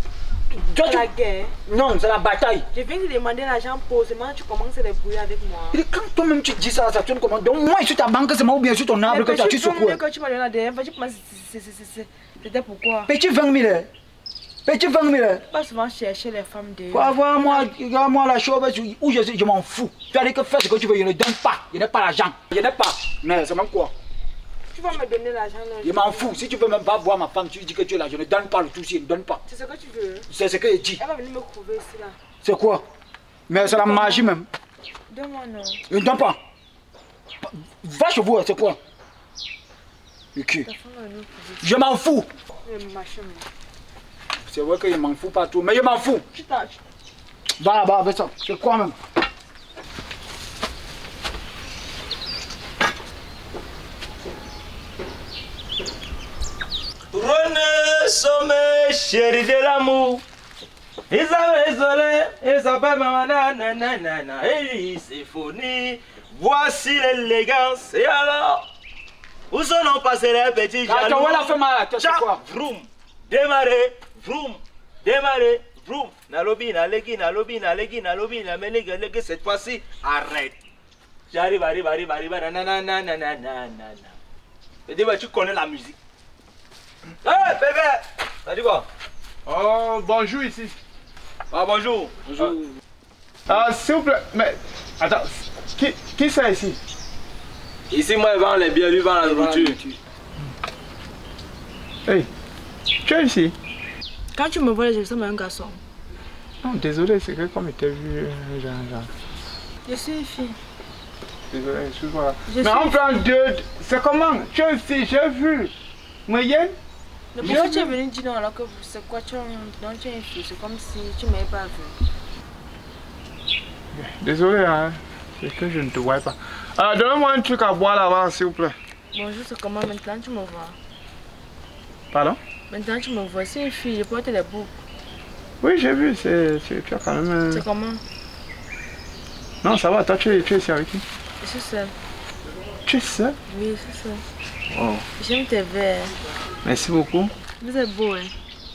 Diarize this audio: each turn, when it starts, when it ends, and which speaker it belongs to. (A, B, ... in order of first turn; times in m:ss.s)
0:00.5-0:01.1 A
0:00.8-0:01.6 B
0:01.7-0:02.7 A
0:02.7-0:05.8 B
0:05.7-0:10.0 A
0:09.1-0:13.1 B
0:13.1-0:13.9 A
0:14.7-0:15.4 A
0:15.5-0:17.7 B
0:16.9-0:23.9 A
0:24.7-0:26.4 B
0:25.8-0:29.4 A
0:29.5-0:30.3 B
0:30.3-0:31.0 A
0:31.0-0:32.2 B
0:32.4-0:32.8 A
0:33.5-0:34.5 A
0:33.6-0:34.3 B
0:35.1-0:35.8 B
0:35.9-0:36.4 A
0:37.4-0:38.8 A
0:40.4-0:40.7 A
0:40.6-0:41.6 B
0:41.6-0:42.3 A
0:42.6-0:43.5 B
0:44.4-0:46.2 A
0:46.3-0:46.8 B
0:47.6-0:49.0 A
0:57.1-1:00.2 C
1:01.1-1:08.6 C
1:09.5-1:20.6 C
1:10.8-1:12.4 A
1:21.3-1:24.2 C
1:24.9-1:26.0 C
1:27.2-1:28.9 C
1:29.4-1:30.8 D
1:31.5-1:32.2 C
1:32.3-1:32.6 A
1:33.5-1:36.8 D
1:37.9-1:39.8 C
1:39.2-1:40.0 A
1:43.0-1:43.6 D
1:44.3-1:45.8 B
1:46.6-1:49.1 D
1:49.8-1:50.6 B
1:51.5-1:55.7 D
1:52.5-1:53.1 B
1:56.3-1:56.8 D
1:57.4-2:02.0 B
1:57.4-1:58.0 D
2:03.9-2:08.8 D
2:09.1-2:10.8 B
2:12.1-2:12.4 D
2:12.7-2:14.8 B
2:15.6-2:17.6 D
2:17.5-2:18.0 B
2:19.6-2:21.0 D
2:21.4-2:21.9 B
2:22.8-2:23.4 D
2:23.5-2:24.2 B
2:24.7-2:25.0 D
2:25.2-2:26.2 B
2:26.6-2:27.3 D
2:27.6-2:28.3 B